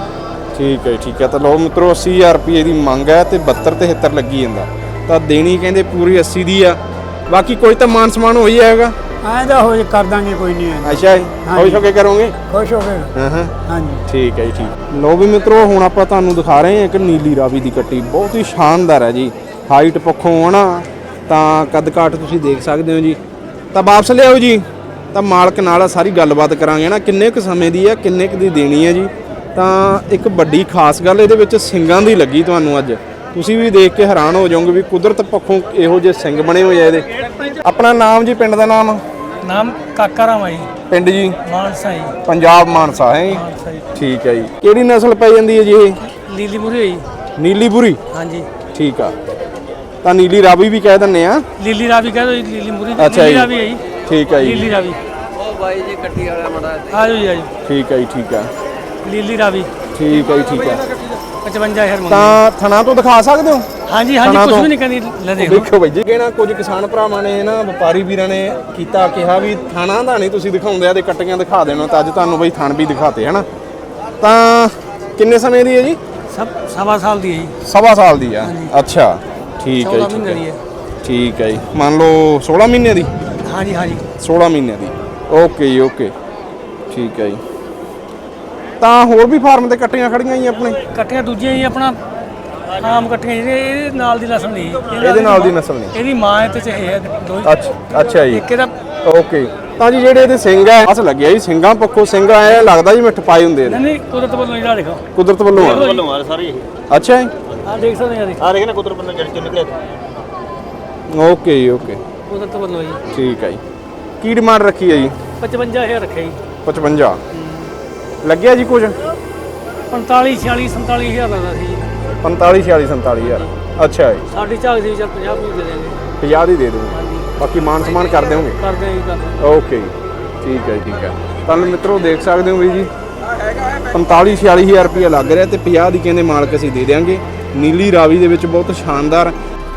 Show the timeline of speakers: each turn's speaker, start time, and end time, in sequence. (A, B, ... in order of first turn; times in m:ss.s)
0:00.5-0:08.9 A
0:09.2-0:11.8 B
0:10.8-0:12.4 A
0:12.5-0:13.1 B
0:13.1-0:13.5 A
0:13.6-0:14.0 B
0:14.1-0:23.2 A
0:23.7-0:39.0 A
0:39.4-0:40.7 C
0:40.9-0:41.4 A
0:41.4-0:42.2 C
0:42.2-0:43.4 A
0:43.3-0:43.9 C
0:43.9-0:46.0 A
0:46.3-0:47.1 C
0:47.4-0:48.0 A
0:48.1-0:48.5 C
0:48.7-0:49.1 A
0:50.0-0:51.4 A
0:51.6-0:55.0 C
0:53.0-0:53.5 A
0:54.0-0:54.7 A
0:55.6-0:57.5 C
0:57.6-0:58.5 A
0:59.0-0:59.7 C
0:59.9-1:00.8 A
1:01.3-1:02.4 C
1:02.1-1:03.7 A
1:03.9-1:05.7 C
1:04.2-1:04.7 A
1:05.4-1:13.4 A
1:14.2-1:16.0 A
1:16.3-1:17.6 C
1:17.6-1:20.4 A
1:18.4-1:18.7 C
1:19.8-1:20.6 C
1:21.0-1:23.1 A
1:23.4-1:24.0 C
1:24.2-1:26.1 A
1:26.9-1:27.4 A
1:28.8-1:30.8 A
1:30.9-1:32.0 C
1:32.7-1:38.7 C
1:34.9-1:36.0 A
1:37.4-1:38.4 A
1:39.0-1:43.8 A
1:43.6-1:45.0 C
1:45.1-1:46.0 A
1:45.5-1:46.1 C
1:45.9-1:46.7 D
1:46.9-1:47.3 A
1:47.6-1:48.6 C
1:48.5-1:49.8 D
1:51.1-1:52.0 A
1:52.3-1:53.0 C
1:53.1-1:53.6 A
1:54.2-1:55.2 A
1:55.4-1:56.4 C
1:56.6-1:57.2 A
1:57.3-1:57.7 C
1:58.2-1:59.0 A
1:59.9-2:01.9 C
2:02.2-2:04.2 A
2:04.3-2:06.0 C
2:06.2-2:08.6 A
2:06.9-2:07.3 C
2:08.2-2:09.4 C
2:09.4-2:12.9 A
2:13.8-2:19.3 A